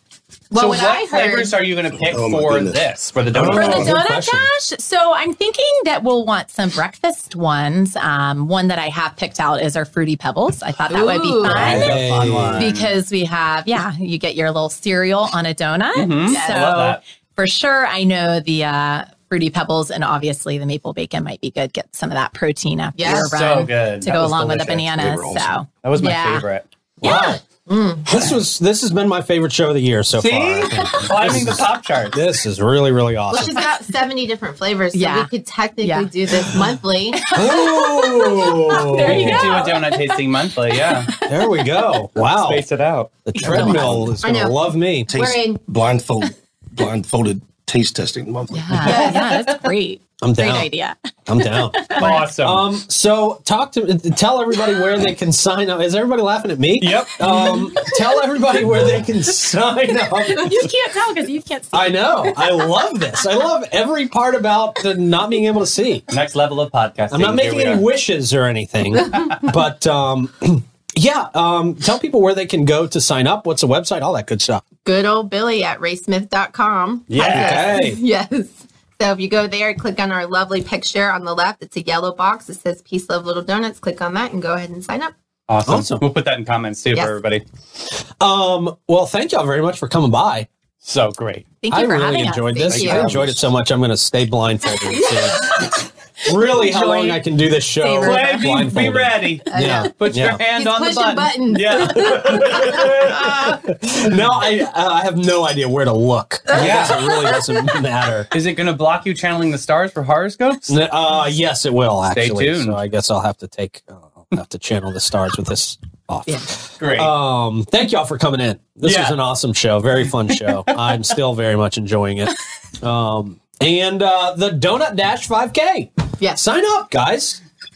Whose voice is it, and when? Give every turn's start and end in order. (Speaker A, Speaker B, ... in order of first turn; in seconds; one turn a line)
Speaker A: 0.5-1.5
Speaker B: 0.5-4.0
Speaker C: 2.0-3.7
Speaker D: 3.3-4.5
Speaker E: 3.5-11.9
Speaker A: 10.9-11.9
Speaker B: 11.4-12.9
Speaker D: 11.4-12.7
Speaker E: 12.5-26.4
Speaker B: 15.9-17.0
Speaker A: 23.0-23.3
Speaker B: 23.0-24.8
Speaker C: 24.5-25.5
Speaker B: 25.8-26.7
Speaker D: 27.0-27.4
Speaker E: 27.0-27.4
Speaker A: 27.1-28.1
Speaker D: 28.1-33.6
Speaker B: 30.1-32.2
Speaker A: 33.3-37.2
Speaker E: 34.9-36.6
Speaker E: 37.1-41.8
Speaker D: 37.3-39.6
Speaker B: 39.0-41.1
Speaker D: 41.3-42.6
Speaker B: 42.2-43.3
Speaker D: 43.3-45.1
Speaker C: 43.4-44.2
Speaker A: 44.2-45.6
Speaker C: 45.1-49.1
Speaker E: 48.5-52.2
Speaker A: 48.9-49.2
Speaker D: 50.2-50.7
Speaker D: 51.3-60.7
Speaker B: 52.0-52.7
Speaker B: 56.8-57.7
Speaker E: 57.4-58.0
Speaker E: 60.1-62.9
Speaker D: 61.7-66.1
Speaker B: 66.1-67.8
Speaker D: 67.1-74.6
Speaker A: 74.8-85.1
Speaker B: 77.1-77.8
Speaker D: 77.2-78.0
Speaker B: 85.5-87.4
Speaker D: 85.7-86.0
Speaker D: 88.2-90.5
Speaker B: 90.8-91.5
Speaker E: 91.6-93.0
Speaker D: 91.7-100.4
Speaker A: 92.5-93.3
Speaker C: 92.9-93.3
Speaker A: 95.0-95.5
Speaker E: 97.8-98.5
Speaker B: 98.0-103.4
Speaker A: 99.5-99.9
Speaker A: 100.5-102.8
Speaker D: 101.9-108.3
Speaker A: 106.5-107.7
Speaker B: 106.5-107.2
Speaker B: 108.3-110.8
Speaker D: 110.7-127.4
Speaker B: 112.1-112.8
Speaker B: 116.8-117.1
Speaker B: 118.8-119.2